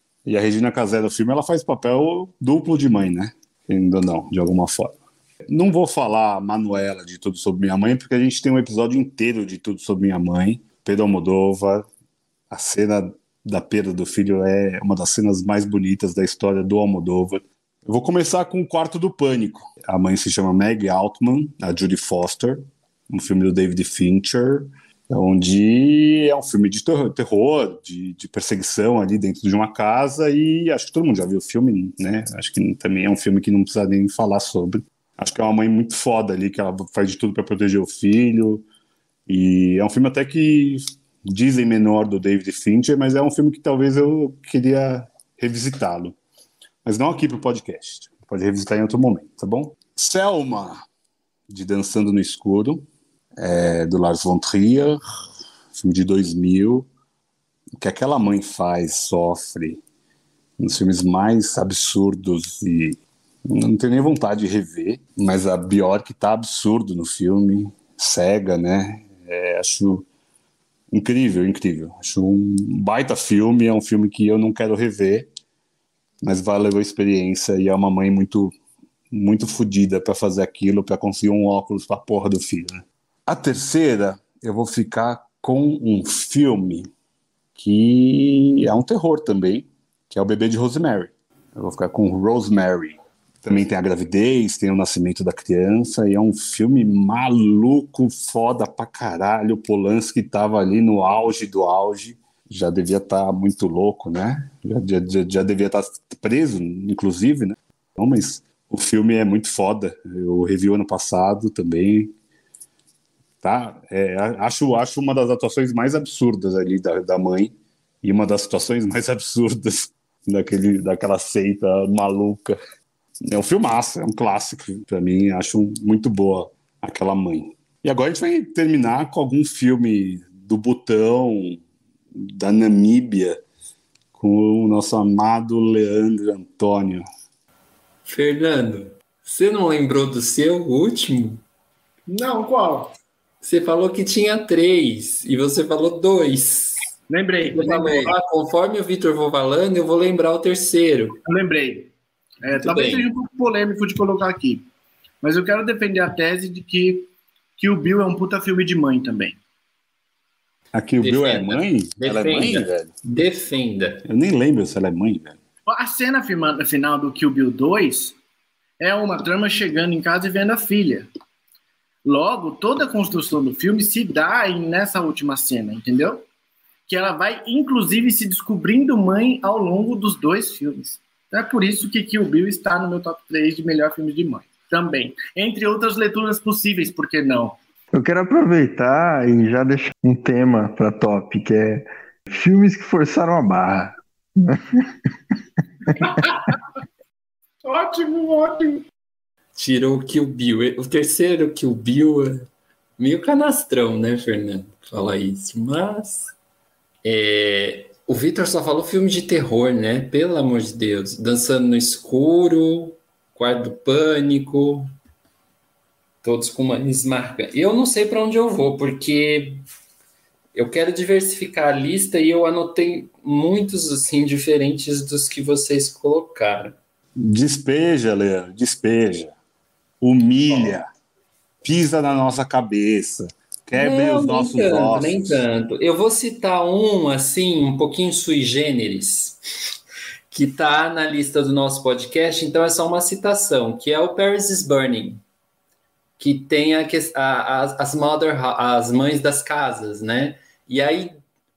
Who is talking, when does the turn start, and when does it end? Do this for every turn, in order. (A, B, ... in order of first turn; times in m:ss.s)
0:00.2-0:05.0 A
0:05.5-0:11.8 A
0:12.5-0:38.7 A
0:39.3-0:46.2 A
0:46.8-0:50.8 A
0:51.5-0:52.9 A
0:53.4-0:55.0 A
0:55.8-0:56.9 A
0:57.8-0:59.8 A
1:00.6-1:10.1 A
1:10.9-1:15.3 A
1:16.2-1:18.5 A
1:19.1-1:26.9 A
1:27.6-1:52.1 A
1:53.4-2:02.6 A
2:03.3-2:11.6 A
2:12.1-2:13.4 A
2:14.2-2:17.0 A
2:18.1-2:21.4 B
2:22.1-2:22.9 C
2:23.4-2:26.8 B
2:27.1-2:28.2 C
2:27.5-2:31.2 B
2:31.3-2:31.9 C
2:32.4-2:34.7 C
2:32.5-2:33.1 B
2:35.2-2:39.4 C
2:40.7-2:42.9 A
2:41.0-2:44.0 B
2:44.0-2:45.4 A
2:45.7-2:48.2 C
2:48.8-2:51.1 C
2:52.0-2:56.2 C
2:56.9-3:07.6 C
3:07.9-3:14.9 D
3:16.0-3:16.6 C
3:17.6-3:18.9 C
3:19.6-3:26.3 B
3:27.0-3:34.9 B
3:36.2-3:39.6 B
3:40.6-3:46.8 B
3:47.2-3:49.4 A
3:50.0-3:50.9 A
3:51.6-3:55.5 A
3:53.8-3:59.4 B
4:00.3-4:05.2 B
4:06.2-4:11.1 B